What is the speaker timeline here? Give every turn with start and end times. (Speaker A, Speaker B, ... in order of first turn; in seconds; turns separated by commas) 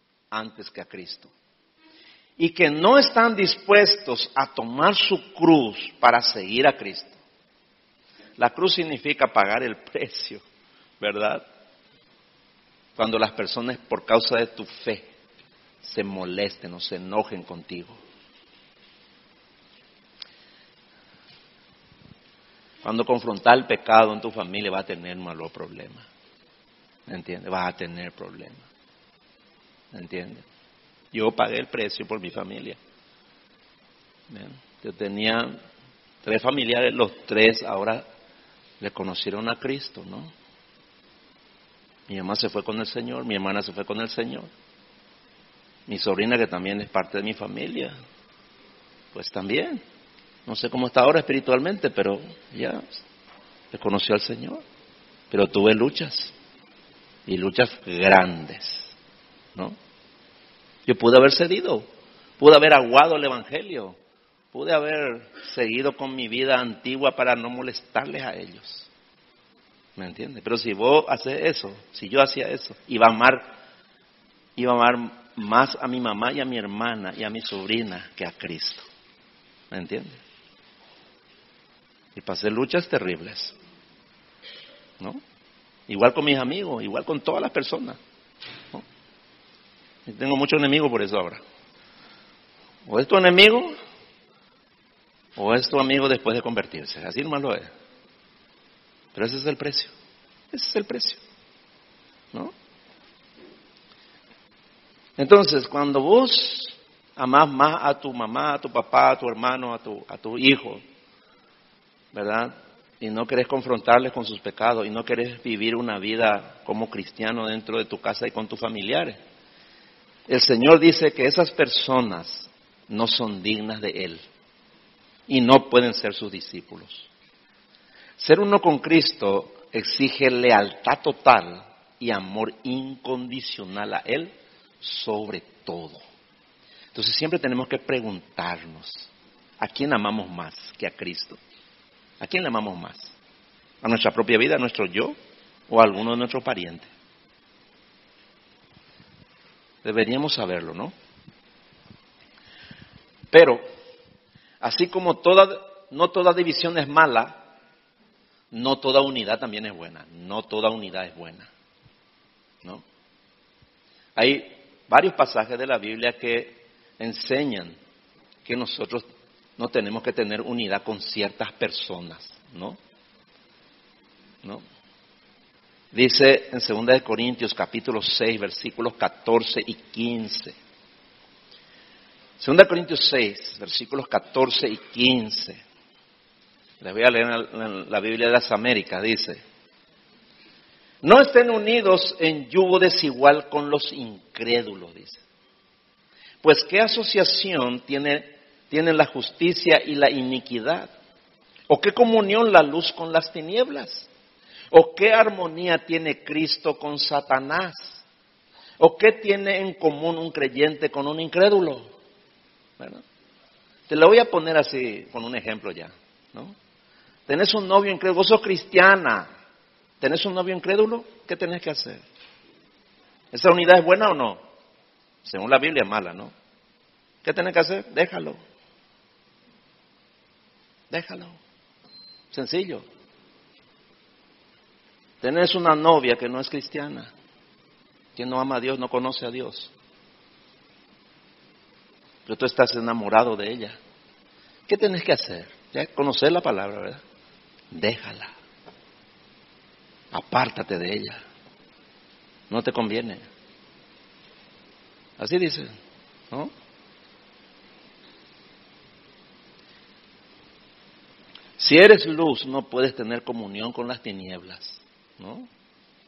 Speaker A: 0.3-1.3, Speaker A: 2.4-7.2, Speaker A: 8.4-10.4, Speaker A: 11.0-11.5, Speaker A: 13.0-15.1, Speaker A: 15.8-18.0, Speaker A: 22.8-26.1, Speaker A: 27.1-28.7, Speaker A: 29.9-30.4, Speaker A: 31.1-32.8, Speaker A: 34.3-35.6, Speaker A: 36.2-38.0, Speaker A: 38.8-40.3, Speaker A: 42.1-44.5, Speaker A: 45.9-48.0, Speaker A: 49.1-49.8, Speaker A: 50.5-53.0, Speaker A: 53.7-54.6, Speaker A: 55.3-56.3, Speaker A: 57.3-59.0, Speaker A: 60.9-61.9, Speaker A: 62.4-64.0, Speaker A: 64.5-68.9, Speaker A: 70.0-73.6, Speaker A: 74.6-78.8, Speaker A: 79.7-80.2, Speaker A: 82.2-83.5, Speaker A: 85.9-88.0, Speaker A: 90.1-91.4, Speaker A: 92.9-93.8, Speaker A: 95.4-97.7, Speaker A: 99.1-99.9, Speaker A: 100.5-101.2, Speaker A: 105.2-110.8, Speaker A: 112.1-119.2, Speaker A: 120.3-124.2, Speaker A: 125.3-127.1, Speaker A: 128.2-136.0, Speaker A: 136.9-141.4, Speaker A: 142.2-143.2, Speaker A: 143.8-145.2, Speaker A: 145.7-146.9, Speaker A: 149.8-150.9, Speaker A: 153.3-153.6, Speaker A: 154.6-157.4, Speaker A: 158.5-161.5, Speaker A: 164.2-167.8, Speaker A: 168.4-169.1, Speaker A: 169.6-172.8, Speaker A: 175.9-180.6, Speaker A: 182.4-185.6, Speaker A: 186.8-189.4, Speaker A: 191.0-195.2, Speaker A: 196.4-200.9, Speaker A: 201.7-204.1, Speaker A: 204.7-208.0, Speaker A: 208.8-211.9, Speaker A: 213.9-216.6, Speaker A: 217.3-219.3, Speaker A: 220.0-222.0, Speaker A: 223.3-224.4, Speaker A: 225.2-226.3, Speaker A: 227.2-228.4, Speaker A: 230.9-231.4, Speaker A: 232.3-232.9, Speaker A: 235.2-237.1, Speaker A: 238.2-239.7, Speaker A: 242.3-243.8, Speaker A: 244.7-247.0, Speaker A: 247.7-248.3, Speaker A: 250.1-251.2, Speaker A: 252.5-253.2, Speaker A: 255.2-255.7, Speaker A: 261.6-265.5